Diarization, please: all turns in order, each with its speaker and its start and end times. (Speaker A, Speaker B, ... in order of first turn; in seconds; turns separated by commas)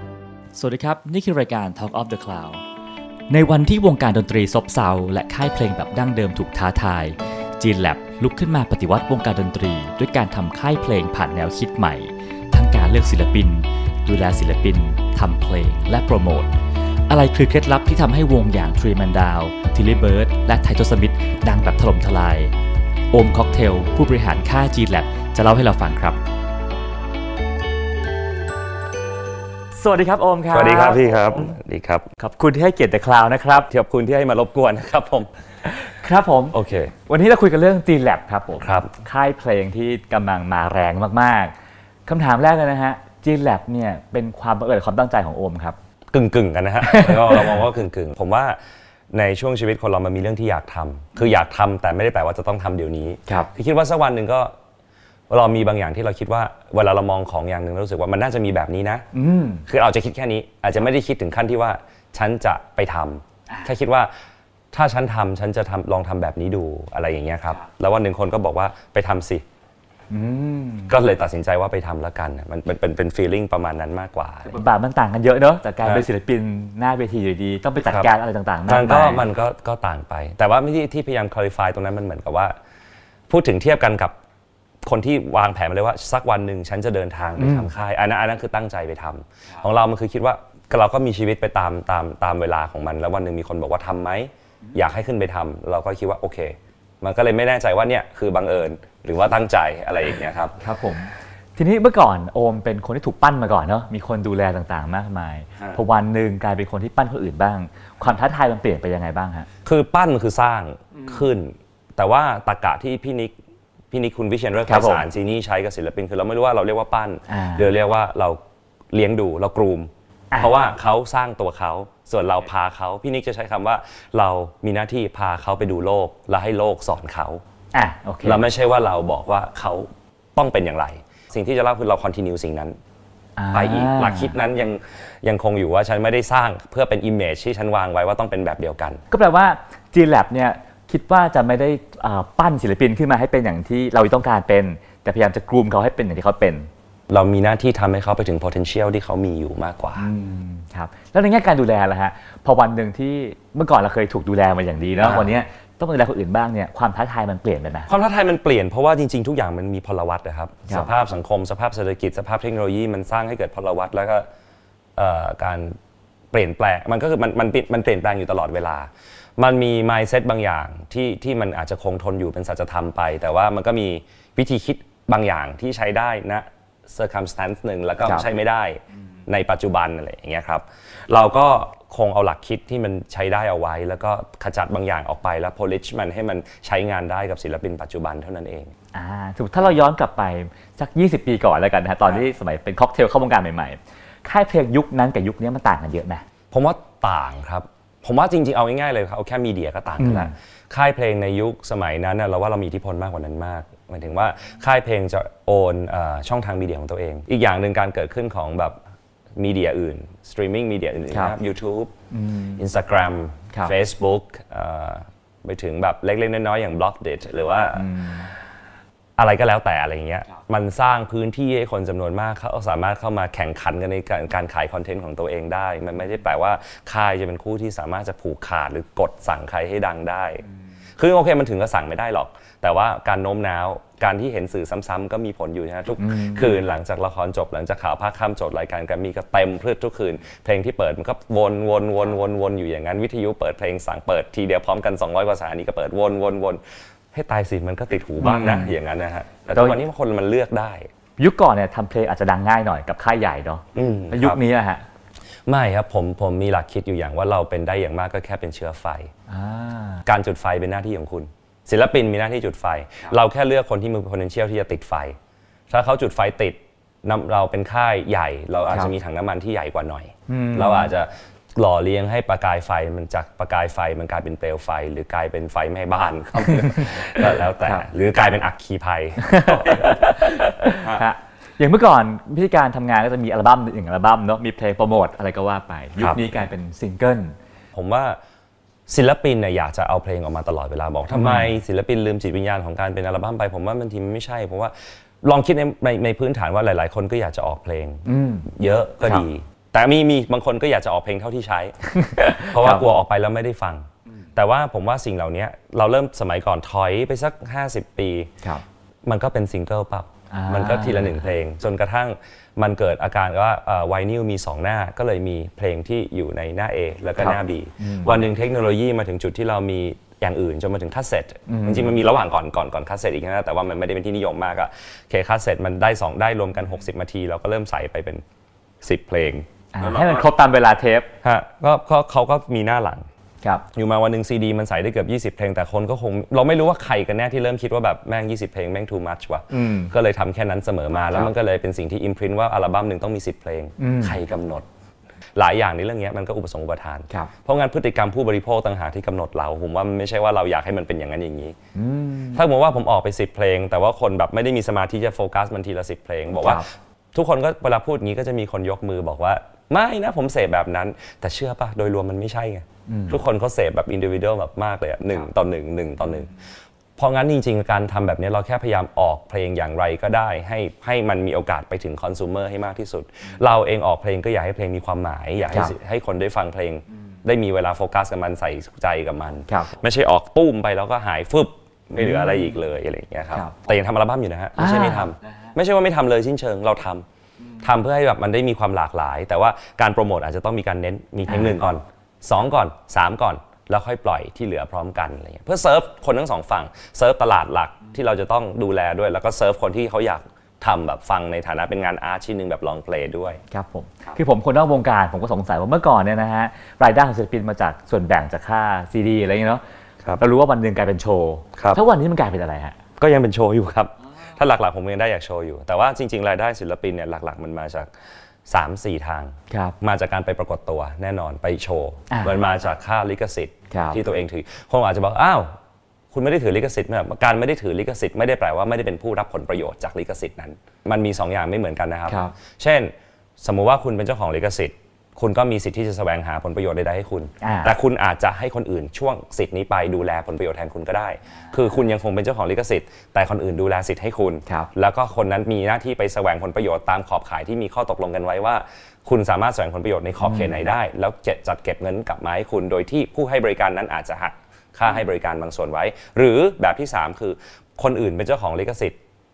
Speaker A: 0.6-2.6, Speaker A: 3.3-16.6, Speaker A: 17.1-22.5, Speaker A: 23.1-26.2, Speaker A: 29.8-31.6, Speaker B: 30.5-32.1, Speaker A: 32.2-33.7, Speaker B: 33.7-35.3, Speaker A: 35.6-36.6, Speaker B: 36.5-36.9, Speaker A: 37.1-41.5, Speaker B: 38.6-38.9, Speaker A: 42.1-45.8, Speaker B: 46.1-48.6, Speaker A: 46.8-47.6, Speaker B: 49.1-54.5, Speaker B: 55.3-59.1, Speaker A: 59.1-59.6, Speaker B: 59.7-64.1, Speaker B: 64.7-69.4, Speaker A: 70.1-71.0, Speaker B: 70.9-74.5, Speaker A: 74.5-79.2, Speaker B: 77.8-78.1, Speaker B: 78.7-82.5, Speaker B: 83.3-84.2, Speaker B: 84.8-100.6, Speaker A: 87.4-87.7, Speaker A: 100.6-109.5, Speaker B: 109.7-113.4, Speaker B: 113.9-118.4, Speaker A: 114.7-115.0, Speaker A: 117.3-117.7, Speaker B: 118.9-127.4, Speaker A: 127.7-128.4, Speaker B: 128.2-132.8, Speaker A: 133.4-134.4, Speaker B: 133.5-139.0, Speaker A: 139.1-146.7, Speaker B: 147.1-150.1, Speaker A: 150.0-157.9, Speaker B: 155.0-155.3, Speaker B: 157.9-164.3, Speaker B: 165.0-165.8, Speaker B: 166.3-188.7, Speaker A: 188.9-196.2, Speaker B: 196.5-208.8, Speaker A: 200.0-200.3, Speaker B: 209.4-211.9, Speaker A: 212.1-212.6, Speaker B: 212.6-218.0, Speaker A: 217.8-218.3, Speaker B: 219.2-230.4, Speaker B: 231.0-246.6, Speaker A: 236.0-236.6, Speaker B: 247.1-250.9, Speaker A: 248.2-248.7, Speaker A: 249.6-249.8, Speaker A: 251.2-254.8, Speaker B: 253.7-254.4, Speaker B: 255.5-259.1, Speaker A: 259.3-260.1, Speaker B: 260.1-265.2, Speaker B: 265.7-281.1, Speaker A: 270.3-270.9, Speaker A: 276.5-277.0, Speaker A: 279.2-287.4, Speaker B: 286.0-286.2, Speaker B: 287.7-288.2, Speaker B: 288.9-301.8, Speaker A: 291.1-291.5, Speaker A: 298.1-298.5, Speaker A: 301.9-302.9, Speaker B: 302.4-308.3, Speaker B: 309.1-328.2, Speaker A: 310.3-311.2, Speaker A: 317.2-318.1, Speaker A: 321.5-322.0, Speaker B: 328.8-330.3, Speaker A: 329.7-331.1, Speaker B: 331.2-333.1, Speaker B: 333.7-344.7, Speaker A: 339.5-339.9, Speaker A: 343.8-344.2, Speaker B: 345.4-351.6, Speaker A: 351.8-352.4, Speaker B: 352.3-366.3, Speaker A: 356.4-356.7, Speaker A: 362.9-363.2, Speaker B: 367.0-387.1, Speaker A: 379.5-379.7, Speaker A: 382.0-382.5, Speaker A: 384.6-385.1, Speaker B: 387.6-403.4, Speaker A: 391.3-391.6, Speaker A: 403.5-409.6, Speaker A: 410.2-412.8, Speaker B: 411.6-411.8, Speaker B: 413.0-417.9, Speaker B: 418.5-425.6, Speaker A: 419.5-419.8, Speaker A: 423.7-424.0, Speaker B: 426.1-459.0, Speaker A: 432.1-432.3, Speaker A: 437.4-437.7, Speaker A: 450.2-450.6